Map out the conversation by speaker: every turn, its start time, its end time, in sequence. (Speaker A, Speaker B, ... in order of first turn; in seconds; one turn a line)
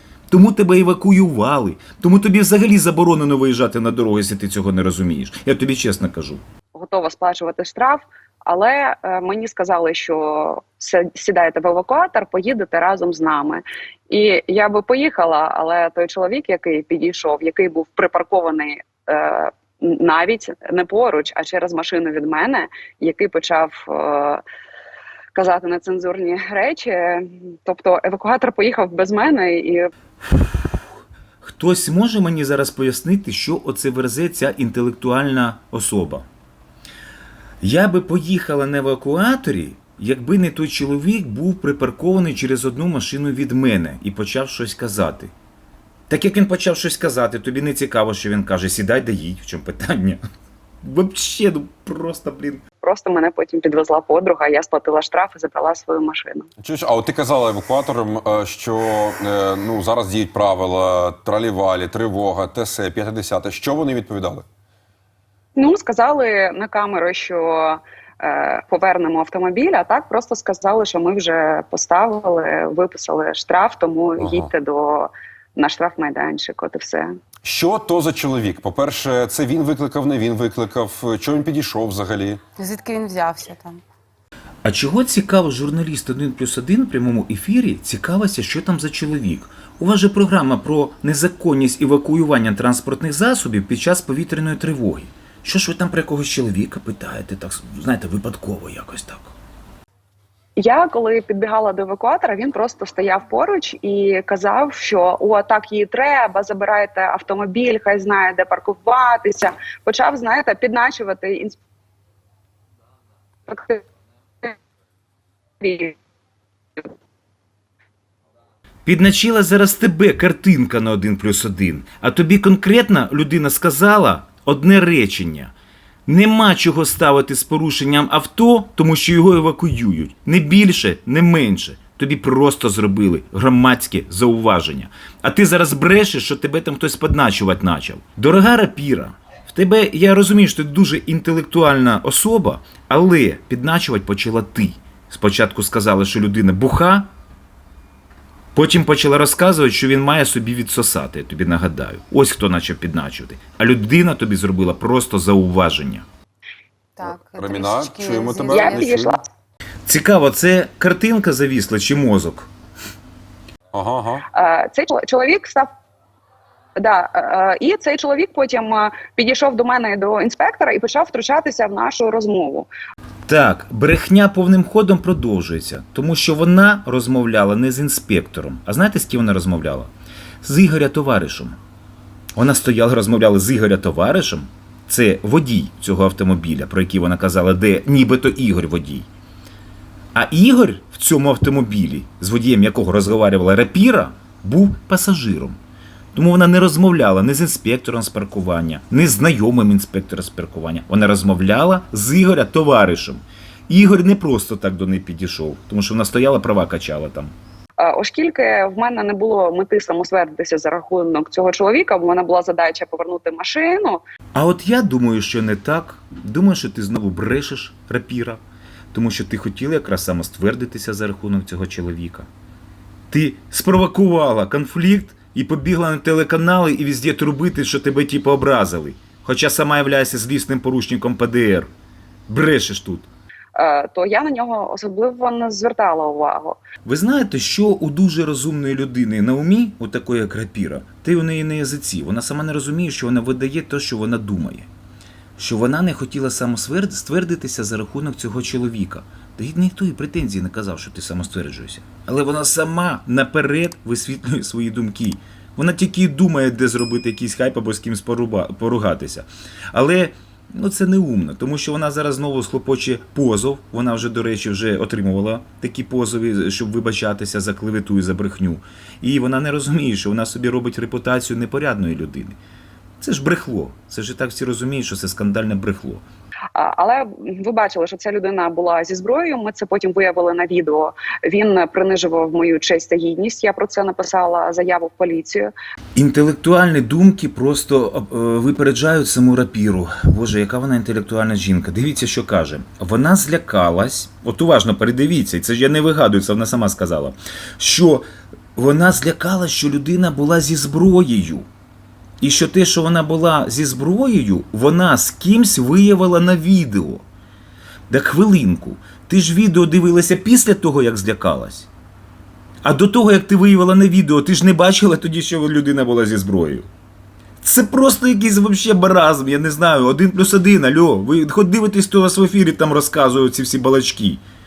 Speaker A: 0.3-6.4
Speaker B: 6.8-24.4
Speaker B: 25.3-29.9
Speaker A: 31.4-36.2
Speaker A: 37.6-45.3
Speaker A: 46.1-50.2
Speaker A: 50.8-52.6
Speaker B: 52.8-56.5
Speaker C: 56.6-64.5
Speaker B: 65.6-77.1
Speaker C: 74.2-74.5
Speaker C: 77.4-82.4
Speaker D: 82.6-83.8
Speaker A: 84.6-99.3
Speaker B: 100.6-111.6
Speaker B: 113.5-113.8
Speaker B: 115.6-116.0
Speaker A: 118.8-125.5
Speaker A: 126.0-147.1
Speaker A: 148.5-156.1
Speaker D: 157.0-158.8
Speaker C: 157.0-159.2
Speaker B: 158.5-159.2
Speaker A: 159.9-162.5
Speaker C: 163.7-164.2
Speaker B: 164.3-165.7
Speaker B: 166.8-172.7
Speaker A: 173.3-181.6
Speaker A: 182.3-189.1
Speaker A: 190.1-195.6
Speaker A: 196.1-207.3
Speaker B: 207.8-214.0
Speaker A: 214.3-218.4
Speaker A: 218.9-222.3
Speaker A: 223.1-231.7
Speaker A: 232.3-233.1
Speaker B: 233.6-236.6
Speaker A: 236.8-244.7
Speaker A: 245.4-272.4
Speaker A: 273.0-276.0
Speaker B: 276.6-285.5
Speaker A: 285.9-301.5
Speaker A: 302.2-307.0
Speaker A: 307.9-311.7
Speaker A: 312.6-316.7
Speaker A: 317.4-324.2